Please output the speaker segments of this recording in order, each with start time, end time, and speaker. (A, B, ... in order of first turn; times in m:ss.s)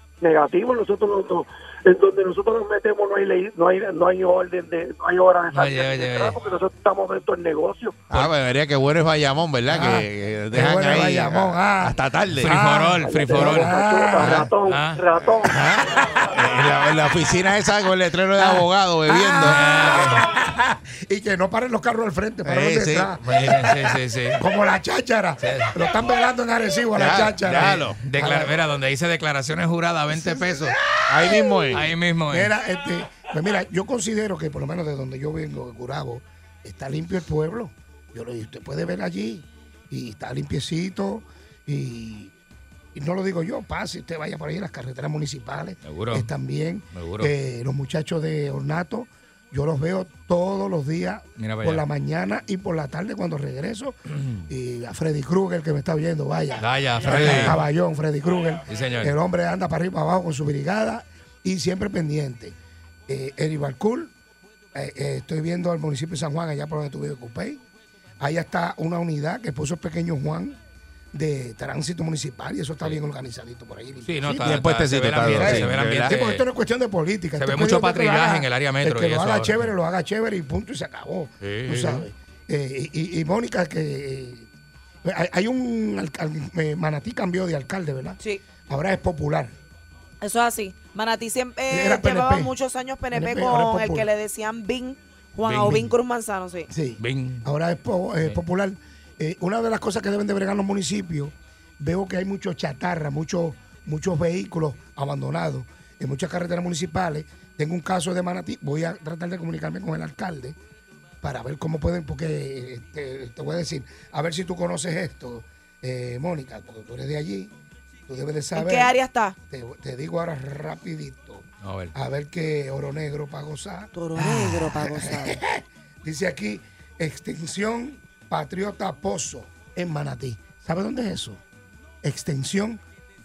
0:00.2-0:08.0 A
0:05.5-0:06.4 B
0:08.1-0:12.5 C
0:09.7-0:14.5 D
0:12.4-0:13.8 B
0:13.0-0:16.2 A
0:14.2-0:14.5 C
0:14.6-0:15.0 B
0:15.4-0:19.7 C
0:15.5-0:16.3 D
0:18.4-0:28.6 D
0:19.4-0:20.2 B
0:22.4-0:23.2 C
0:23.2-0:24.4 B
0:25.4-0:25.7 B
0:27.0-0:28.0 C
0:28.0-0:30.8 B
0:30.1-0:42.3 D
0:31.1-0:31.9 C
0:31.7-0:32.5 B
0:43.0-0:54.0 D
0:45.8-0:46.3 B
0:46.9-0:47.3 B
0:51.4-0:51.8 B
0:54.1-0:54.4 B
0:54.5-1:02.6 D
0:56.6-0:57.6 B
0:57.1-0:57.6 C
0:58.7-0:59.2 B
1:03.1-1:04.1 D
1:04.8-1:07.6 D
1:08.2-1:10.6 D
1:11.1-1:14.5 D
1:14.0-1:16.4 B
1:14.4-1:16.2 C
1:15.2-1:24.5 D
1:17.4-1:19.6 B
1:21.4-1:22.1 B
1:25.0-1:29.5 D
1:30.2-1:36.7 E
1:31.7-1:32.5 D
1:33.1-1:34.1 D
1:35.4-1:35.9 B
1:35.6-1:35.9 D
1:36.7-1:50.6 D
1:37.0-1:37.4 B
1:51.2-1:57.5 D
1:58.1-1:59.0 D
1:58.6-1:59.4 E
1:59.5-2:11.4 D
2:01.6-2:01.9 B
2:03.9-2:05.4 E
2:04.2-2:04.6 B
2:12.0-2:12.8 D